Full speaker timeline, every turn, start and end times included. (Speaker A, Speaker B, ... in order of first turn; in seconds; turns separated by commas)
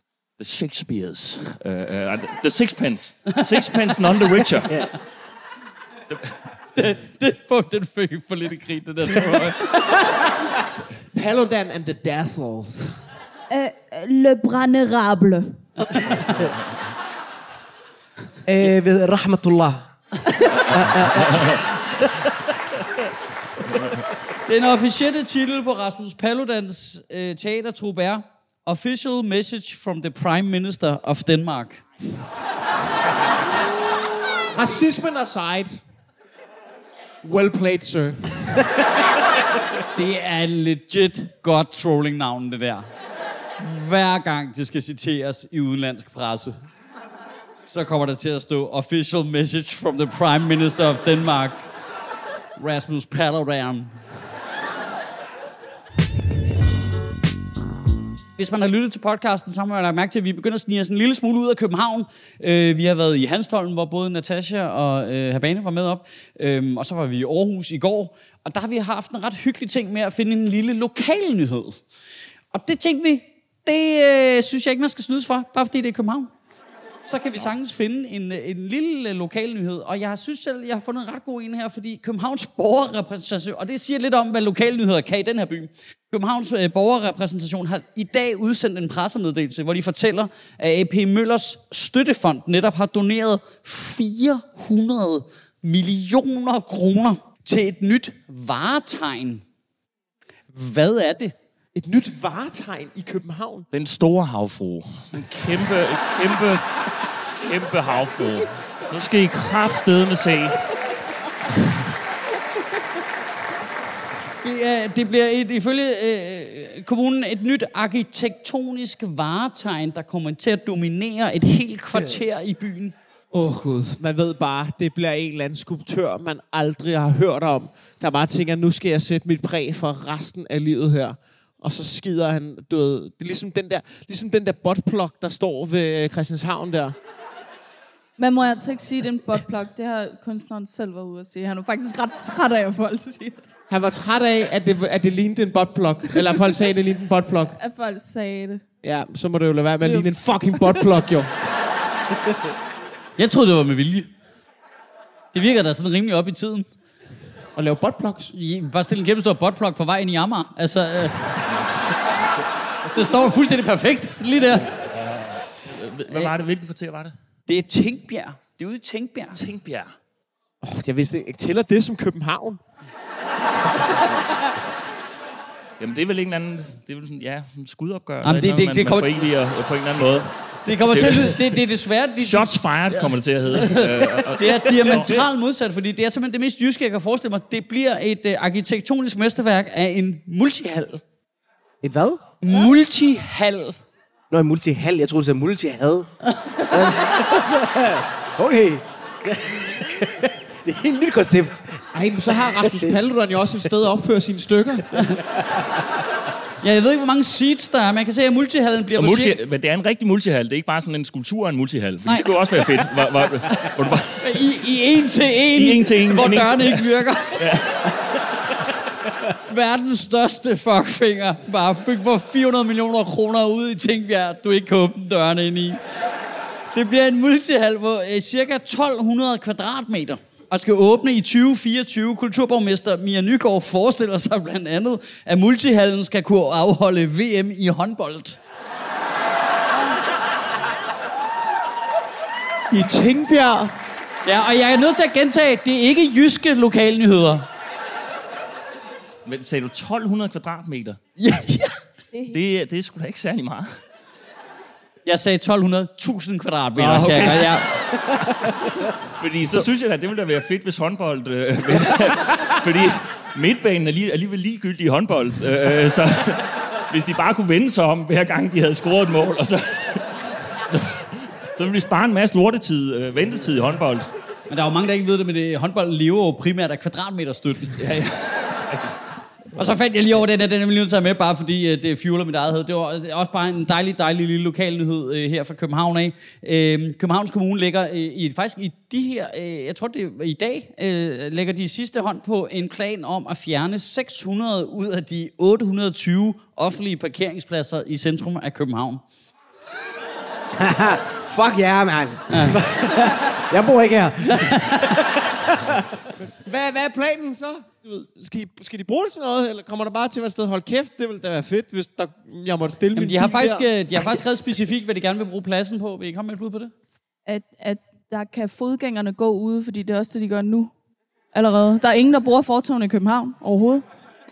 Speaker A: 0.4-4.9, Speaker A: 6.1-6.3, Speaker B: 6.8-9.6, Speaker C: 11.1-12.9, Speaker D: 13.5-16.2, Speaker B: 15.9-16.2, Speaker E: 18.5-19.9, Speaker E: 20.7-21.9, Speaker B: 24.5-31.8, Speaker C: 34.5-35.8, Speaker C: 37.2-38.6, Speaker B: 40.0-42.9, Speaker B: 43.6-46.7, Speaker B: 47.6-51.7, Speaker B: 52.6-54.0, Speaker B: 58.4-71.8, Speaker B: 72.5-76.3, Speaker B: 77.1-99.4, Speaker B: 100.5-101.3, Speaker C: 101.7-103.7, Speaker A: 103.7-106.7, Speaker A: 107.4-110.6, Speaker B: 114.4-122.9, Speaker C: 123.3-137.0, Speaker D: 138.2-143.5, Speaker C: 143.7-147.6, Speaker D: 147.5-148.6, Speaker C: 148.8-151.3, Speaker D: 149.8-150.9, Speaker B: 153.2-154.1, Speaker B: 155.3-156.7, Speaker C: 157.6-158.3, Speaker B: 158.3-161.3, Speaker B: 162.9-164.7, Speaker A: 165.6-167.1, Speaker B: 166.1-166.3, Speaker B: 167.5-169.4, Speaker A: 169.3-169.9, Speaker C: 170.6-172.6, Speaker A: 175.8-181.6, Speaker B: 178.2-179.3, Speaker B: 180.7-191.0, Speaker A: 182.2-185.2, Speaker E: 191.8-192.2, Speaker B: 192.4-193.8, Speaker E: 194.3-196.1, Speaker E: 196.7-201.8, Speaker C: 201.9-204.9, Speaker E: 202.6-202.9, Speaker B: 206.6-209.4, Speaker A: 209.0-214.5, Speaker B: 214.2-217.6, Speaker A: 215.5-217.9, Speaker B: 219.5-225.8, Speaker B: 226.7-238.4, Speaker C: 242.7-243.7, Speaker B: 244.2-247.5, Speaker A: 249.2-251.0, Speaker D: 252.1-252.4, Speaker A: 252.3-253.8, Speaker B: 255.1-257.7, Speaker A: 256.8-274.1, Speaker B: 274.5-277.8, Speaker A: 277.8-278.9, Speaker B: 279.5-299.0, Speaker E: 300.6-305.7, Speaker B: 302.3-302.5, Speaker B: 304.3-304.7, Speaker C: 306.4-314.2, Speaker B: 313.0-316.7, Speaker D: 317.2-320.7, Speaker D: 321.3-323.8